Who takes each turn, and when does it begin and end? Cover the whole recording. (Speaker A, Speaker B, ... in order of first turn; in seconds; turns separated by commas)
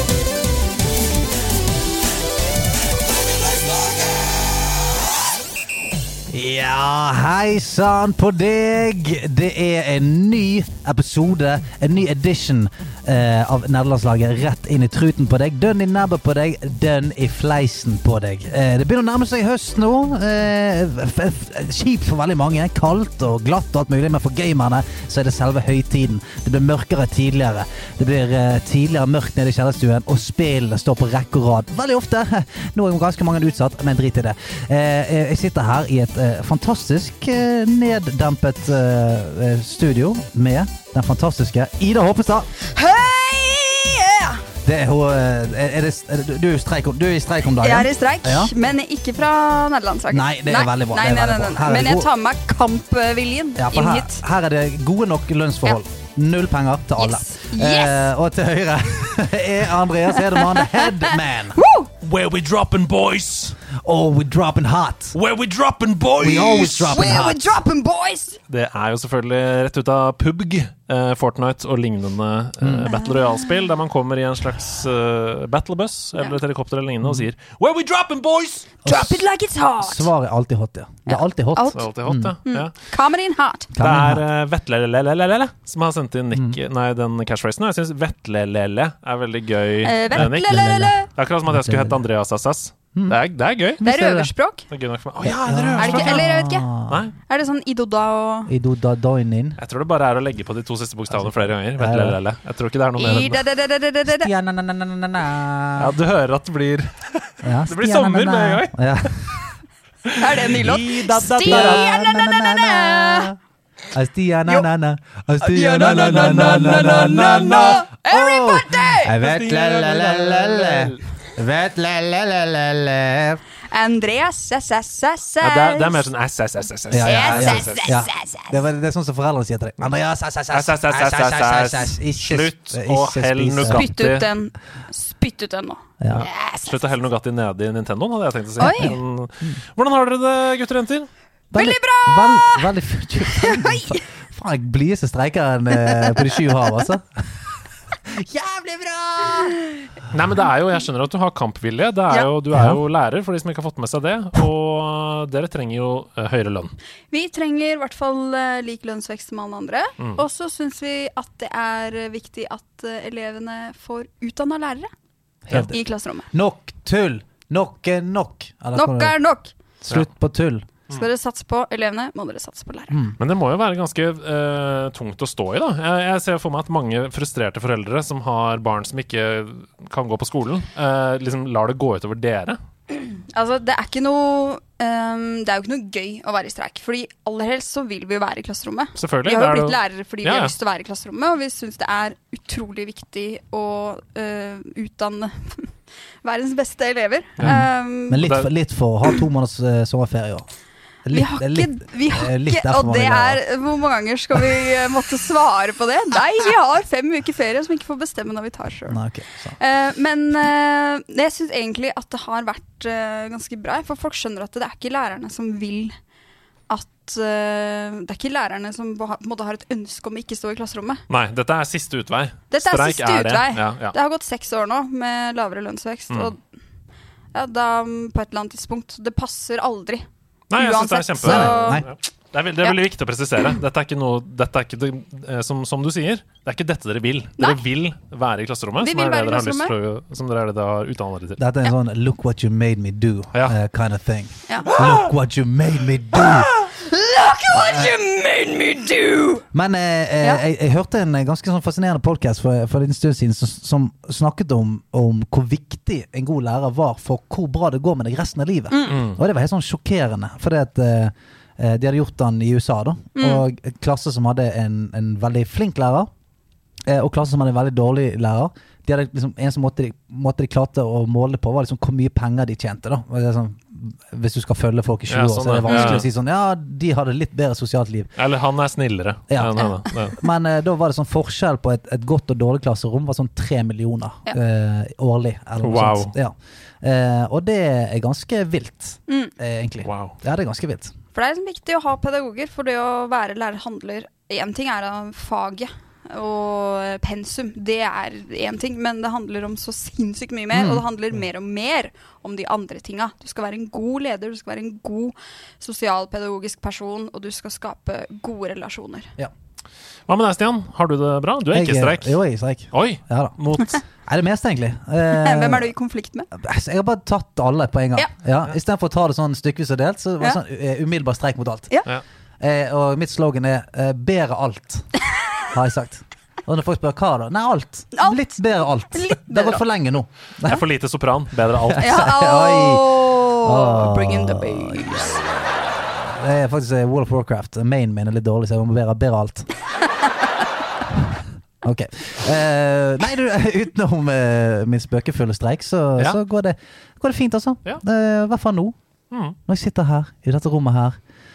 Speaker A: 6.3-42.5, Speaker B: 42.7-44.4, Speaker A: 44.6-48.5, Speaker B: 47.6-54.2, Speaker A: 50.1-52.1, Speaker A: 53.6-61.6, Speaker B: 57.0-58.0, Speaker B: 60.1-61.9, Speaker C: 62.0-63.6, Speaker A: 63.7-65.2, Speaker C: 65.1-67.0, Speaker A: 66.2-67.5, Speaker B: 66.4-68.4, Speaker C: 68.5-78.7, Speaker A: 72.6-72.9, Speaker B: 72.8-73.7, Speaker A: 78.8-79.3, Speaker B: 78.8-80.1, Speaker A: 79.8-82.3, Speaker B: 81.1-81.9, Speaker C: 81.7-82.7, Speaker B: 82.4-83.7, Speaker A: 83.7-84.2, Speaker C: 83.8-93.8, Speaker B: 89.8-91.1, Speaker A: 90.1-92.0, Speaker A: 93.8-94.3, Speaker B: 93.8-94.7, Speaker C: 94.7-96.2, Speaker A: 95.2-97.0, Speaker B: 95.8-96.7, Speaker C: 96.9-97.1, Speaker B: 97.3-98.5, Speaker A: 98.5-99.6, Speaker C: 99.6-103.4, Speaker A: 101.1-102.2, Speaker B: 103.0-104.3, Speaker A: 104.0-105.9, Speaker C: 105.8-109.4, Speaker A: 107.4-109.3, Speaker C: 110.0-112.0, Speaker B: 110.2-113.3, Speaker A: 111.4-113.4, Speaker A: 113.9-123.4, Speaker B: 115.4-119.2, Speaker C: 116.2-117.8, Speaker C: 119.2-121.0, Speaker B: 123.7-126.0, Speaker C: 125.4-127.9, Speaker A: 126.9-133.9, Speaker B: 127.0-128.6, Speaker C: 130.5-134.3, Speaker B: 133.6-136.8, Speaker A: 136.0-136.3, Speaker C: 136.1-141.1, Speaker B: 138.6-138.9, Speaker A: 138.6-139.6, Speaker B: 141.5-142.7, Speaker A: 141.5-147.3, Speaker B: 143.2-144.0, Speaker A: 148.1-149.6, Speaker C: 150.1-156.7, Speaker A: 152.5-152.8, Speaker B: 157.1-164.9, Speaker C: 160.0-160.2, Speaker A: 165.5-165.8, Speaker B: 165.5-166.3, Speaker A: 166.3-169.2, Speaker B: 168.7-169.5, Speaker A: 169.8-170.7, Speaker B: 170.9-172.9, Speaker A: 172.9-173.2, Speaker C: 173.2-182.6, Speaker B: 182.9-195.7, Speaker C: 188.9-190.5, Speaker B: 196.2-198.3, Speaker C: 197.4-197.6, Speaker A: 197.4-200.4, Speaker C: 198.2-198.5, Speaker A: 201.0-203.4, Speaker B: 201.1-209.0, Speaker A: 204.3-204.6, Speaker A: 208.9-209.6, Speaker B: 209.6-215.9, Speaker B: 216.7-221.0, Speaker C: 221.1-223.9, Speaker B: 222.5-226.4, Speaker B: 227.3-231.8, Speaker C: 230.5-241.4, Speaker A: 231.2-231.9, Speaker B: 238.8-239.7, Speaker A: 241.4-246.5, Speaker B: 244.5-244.8, Speaker B: 246.2-249.4, Speaker A: 247.5-247.9, Speaker A: 249.5-266.1, Speaker B: 258.7-259.0, Speaker C: 258.9-259.2, Speaker B: 263.2-263.4, Speaker A: 266.9-278.1, Speaker C: 275.1-276.1, Speaker B: 275.7-276.0, Speaker C: 278.2-280.2, Speaker A: 279.3-290.9, Speaker C: 285.6-286.1, Speaker C: 289.8-290.2, Speaker B: 291.1-309.1, Speaker A: 300.5-300.9, Speaker C: 310.1-312.2, Speaker A: 311.5-313.3, Speaker C: 312.7-313.8, Speaker A: 314.0-315.7, Speaker B: 315.1-316.3, Speaker A: 316.3-321.8, Speaker A: 322.4-324.9, Speaker A: 325.5-330.6, Speaker B: 327.9-328.4, Speaker B: 328.9-329.6, Speaker C: 330.4-332.0, Speaker A: 331.6-339.5, Speaker B: 331.8-335.2, Speaker A: 341.6-348.7, Speaker C: 349.1-349.4, Speaker A: 349.5-351.0